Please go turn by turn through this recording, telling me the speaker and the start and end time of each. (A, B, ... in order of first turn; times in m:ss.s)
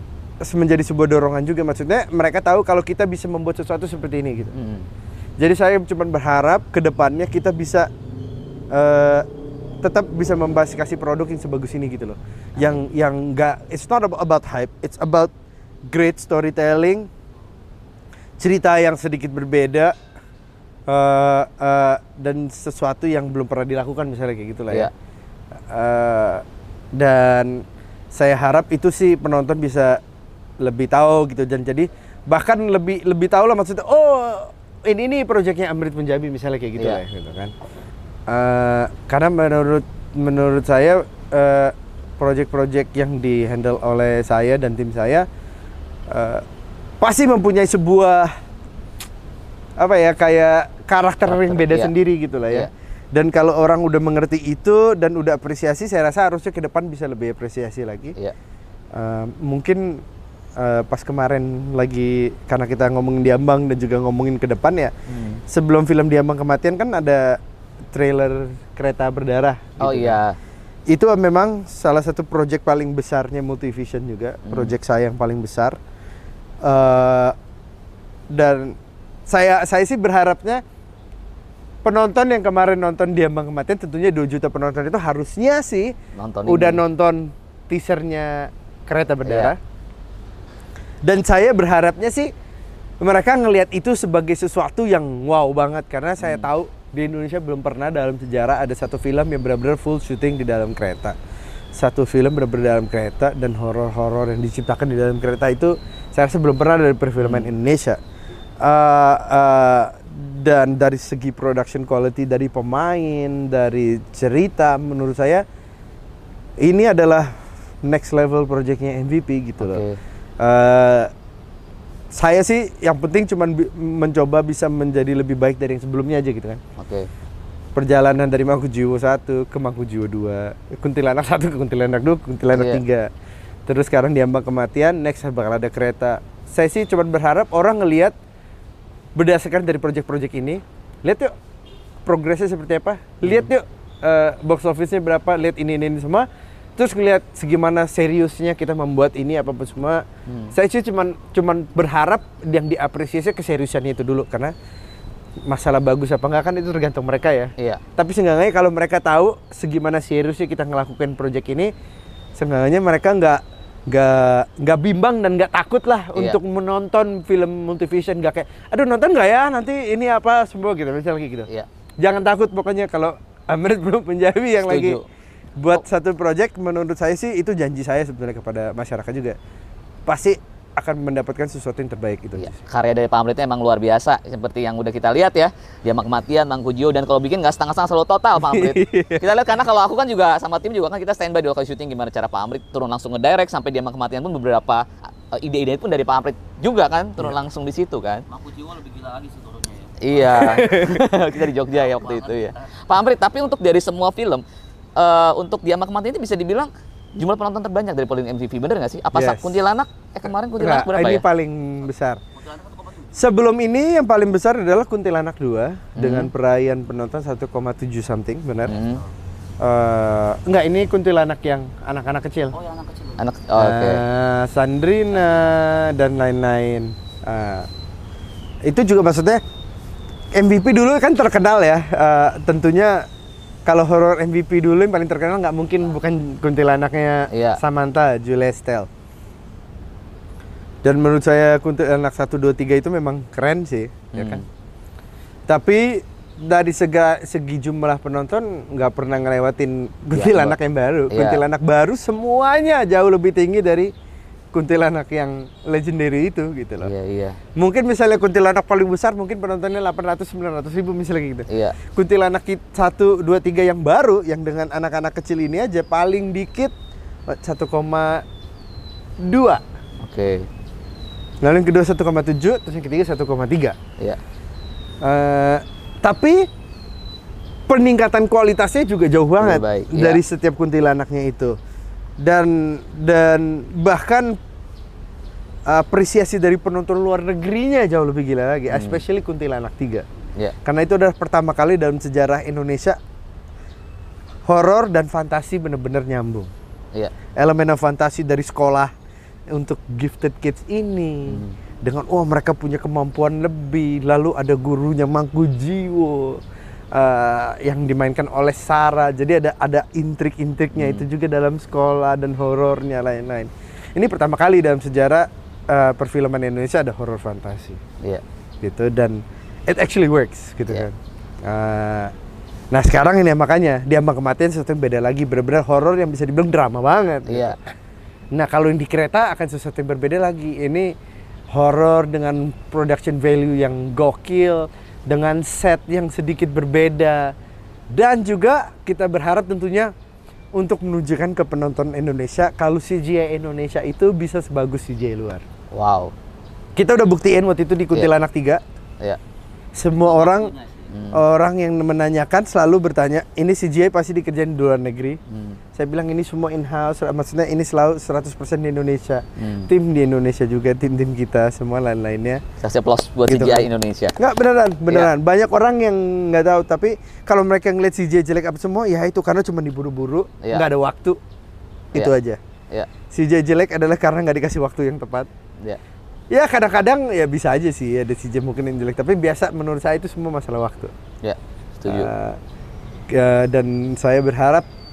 0:00.4-0:04.5 A
0:04.5-0:04.9 B
0:05.4-0:07.9 A
0:08.7-0:09.3 A
0:09.8-0:15.3 A
0:12.6-0:12.8 B
0:15.9-0:17.1 A
0:18.4-0:19.9 A
0:20.9-0:24.9 A
0:25.7-0:26.4 A
0:27.0-0:30.0 A
0:30.6-0:37.5 A
0:36.8-0:37.0 B
0:38.3-0:45.2 A
0:46.1-0:46.4 A
0:47.0-0:48.3 A
0:49.8-0:58.2 A
0:51.2-0:51.9 B
0:58.9-1:00.0 A
1:00.6-1:04.9 A
1:05.1-1:05.4 B
1:05.5-1:07.4 A
1:07.9-1:10.2 A
1:09.8-1:10.4 B
1:10.9-1:15.8 A
1:14.4-1:14.7 B
1:16.6-1:17.4 A
1:18.3-1:18.8 A
1:19.3-1:20.6 A
1:21.8-1:25.9 A
1:26.1-1:26.8 B
1:26.4-1:29.6 A
1:29.2-1:29.5 B
1:31.0-1:32.3 A
1:33.0-1:41.1 A
1:36.2-1:36.5 B
1:41.7-1:48.0 A
1:47.2-1:47.5 B
1:48.6-1:55.4 A
1:56.6-1:59.8 A
1:59.6-2:00.0 B
2:00.4-2:01.1 A
2:02.1-2:06.6 A
2:06.8-2:07.1 B
2:07.7-2:13.1 A
2:12.5-2:12.8 B
2:13.7-2:18.1 A
2:19.2-2:21.3 A
2:22.0-2:26.2 A
2:23.2-2:23.5 B
2:26.8-2:34.5 A
2:30.3-2:30.5 B
2:35.5-2:41.7 A
2:42.4-2:51.5 A
2:52.0-2:55.0 A
2:54.6-2:55.0 B
2:55.6-2:59.4 A
3:00.1-3:02.6 A
3:02.4-3:18.2 B
3:08.4-3:09.3 A
3:18.3-3:20.6 C
3:20.0-3:24.4 B
3:20.2-3:21.3 A
3:21.7-3:22.7 C
3:25.0-3:31.2 B
3:29.1-3:29.6 A
3:30.6-3:32.2 A
3:32.4-3:33.2 C
3:33.1-3:38.8 A
3:36.0-3:36.3 B
3:38.7-3:39.0 B
3:39.6-3:42.5 A
3:42.5-3:43.3 C
3:43.2-3:44.0 B
3:43.6-3:47.7 A
3:48.6-3:49.4 A
3:50.3-3:53.0 A
3:53.6-3:58.9 A
3:57.3-3:57.6 B
4:00.8-4:04.4 A
4:04.1-4:04.4 B
4:05.5-4:13.9 A
4:10.1-4:10.6 B
4:11.1-4:11.4 B
4:14.5-4:16.9 A
4:16.8-4:17.4 B
4:17.6-4:26.7 A
4:21.5-4:21.8 B
4:27.3-4:28.2 A
4:29.2-4:29.6 A
4:30.0-4:30.5 B
4:31.4-4:33.8 A
4:35.0-4:36.4 A
4:37.7-4:41.6 A
4:39.4-4:40.2 B
4:42.2-4:44.4 A
4:45.7-4:50.0 A
4:48.7-4:49.0 B
4:50.6-4:53.0 A
4:54.5-4:56.5 A
4:57.4-4:58.9 A
4:59.5-5:06.4 A
5:01.3-5:01.6 B
5:06.9-5:17.8 A
5:10.7-5:11.0 B
5:18.6-5:22.1 A
5:22.7-5:27.6 A
5:27.3-5:27.6 B
5:28.3-5:30.9 A
5:31.5-5:37.3 A
5:37.9-5:39.9 A
5:40.5-5:45.4 A
5:45.7-5:46.1 B
5:46.8-5:48.6 A
5:49.8-5:50.5 A
5:50.0-5:51.0 C
5:50.9-5:51.2 B
5:51.1-5:55.2 A
5:55.3-5:55.6 B
5:55.7-6:02.4 A
5:59.4-5:59.7 B
6:02.6-6:04.2 B
6:03.3-6:11.2 A
6:11.9-6:12.4 A
6:13.1-6:15.3 A
6:16.3-6:20.9 A
6:21.2-6:22.1 B
6:21.9-6:22.4 A
6:23.1-6:24.6 A